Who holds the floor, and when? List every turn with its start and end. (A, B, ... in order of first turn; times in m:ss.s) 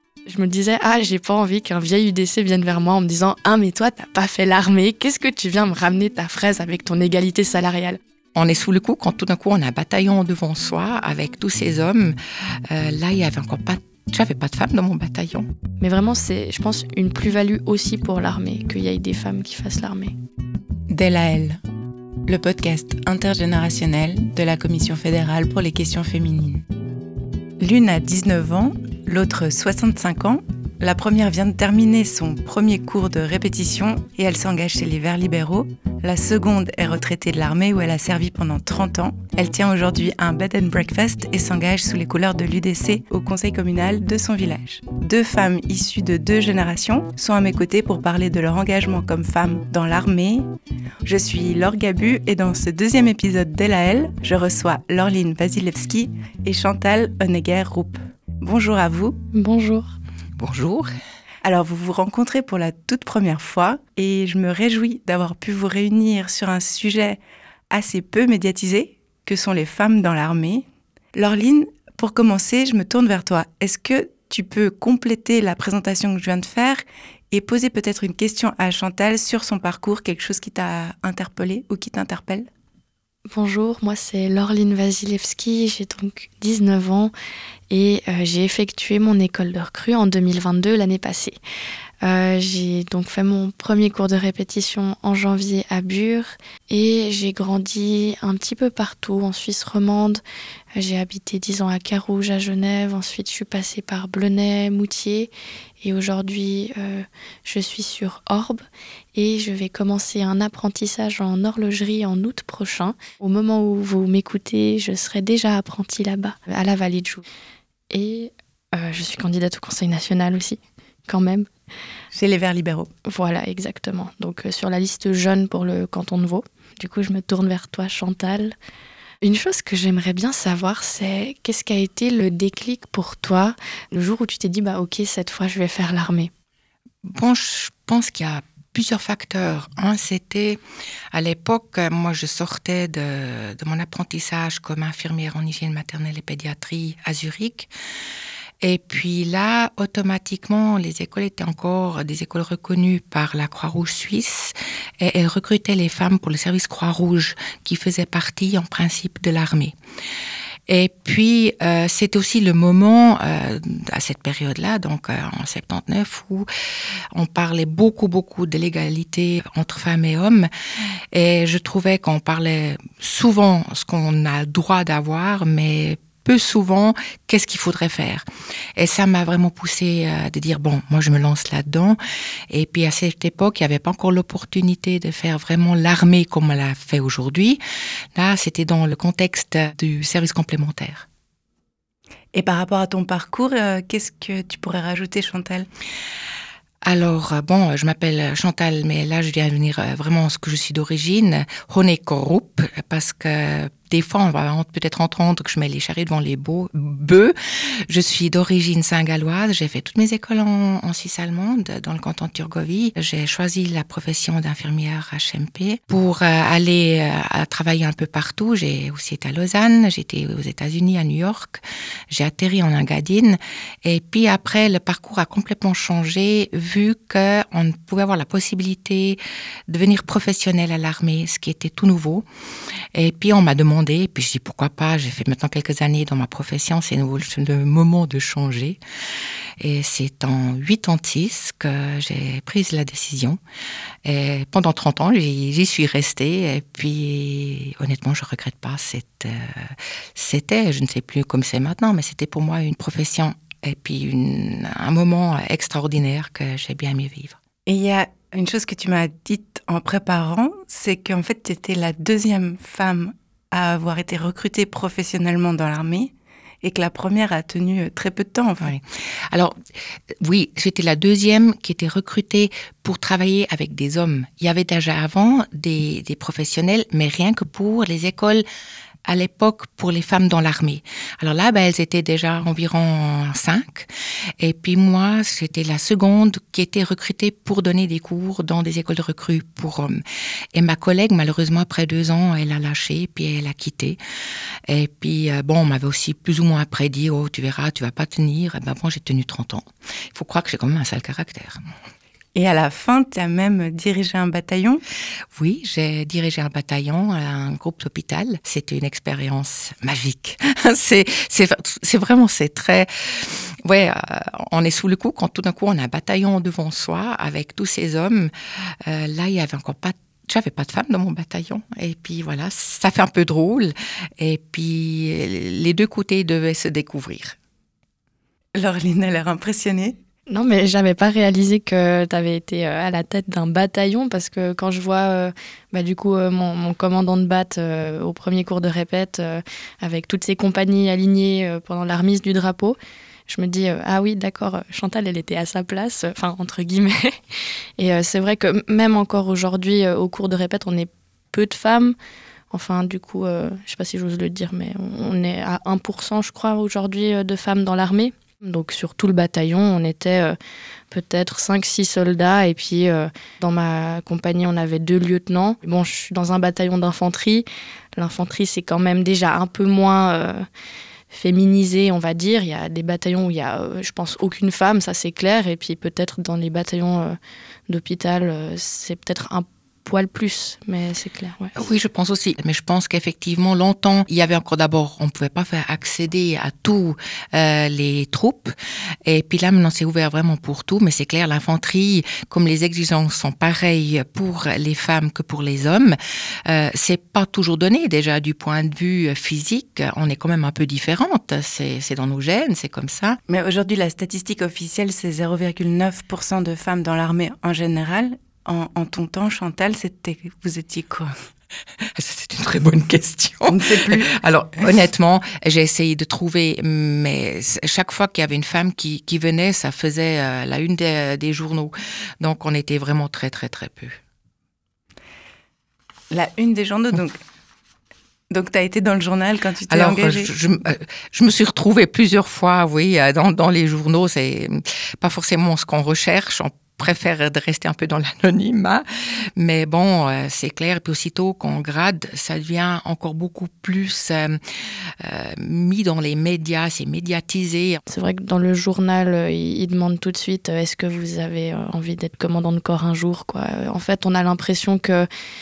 0:00.3-0:08.0 A
0:08.4-0:12.2 B
0:12.7-0:15.5 B
0:15.8-0:20.1 A
0:20.9-0:21.6 C
0:22.3-0:26.6 C
0:27.6-0:50.5 C
0:51.0-0:59.2 C
0:59.3-1:00.0 A
1:00.4-1:01.0 B
1:01.4-1:07.2 C
1:07.7-1:22.5 C
1:23.3-1:27.1 A
1:27.7-1:31.4 A
1:32.0-1:40.2 A
1:40.8-1:45.3 A
1:45.8-1:48.6 A
1:49.2-1:57.2 A
1:57.9-2:01.5 A
2:02.1-2:02.9 C
2:03.1-2:08.6 A
2:09.2-2:16.3 A
2:17.0-2:20.6 B
2:21.1-2:27.7 B
2:28.6-2:39.8 B
2:40.7-2:46.5 B
2:47.1-2:50.5 B
2:51.1-2:58.2 B
2:58.8-3:02.0 B
3:02.5-3:07.6 B
3:08.2-3:11.1 B
3:12.3-3:15.7 C
3:16.8-3:27.4 B
3:27.9-3:52.2 B
3:53.0-3:58.8 B
3:59.6-4:03.4 B
4:04.0-4:17.4 B
4:17.7-4:26.1 C
4:26.6-4:28.7 C
4:28.6-4:29.6 B
4:30.2-4:38.4 B
4:39.1-4:43.9 B
4:44.4-4:50.0 B
4:50.5-4:54.0 B
4:54.7-5:01.6 B
5:02.4-5:04.8 C
5:05.3-5:18.3 B
5:18.8-5:27.4 B
5:28.6-5:30.0 C
5:30.3-5:42.8 A
5:43.3-5:52.0 A
5:52.5-6:00.4 A
6:00.9-6:10.5 A
6:11.1-6:17.2 A
6:17.7-6:21.6 A
6:21.6-6:43.2 B
6:43.3-6:51.2 C
6:52.0-7:04.0 B
6:53.5-6:54.1 C
7:06.1-7:07.2 C
7:08.3-7:10.3 C
7:09.7-7:18.8 B
7:19.4-7:24.4 B
7:25.0-7:27.8 B
7:27.9-7:35.1 A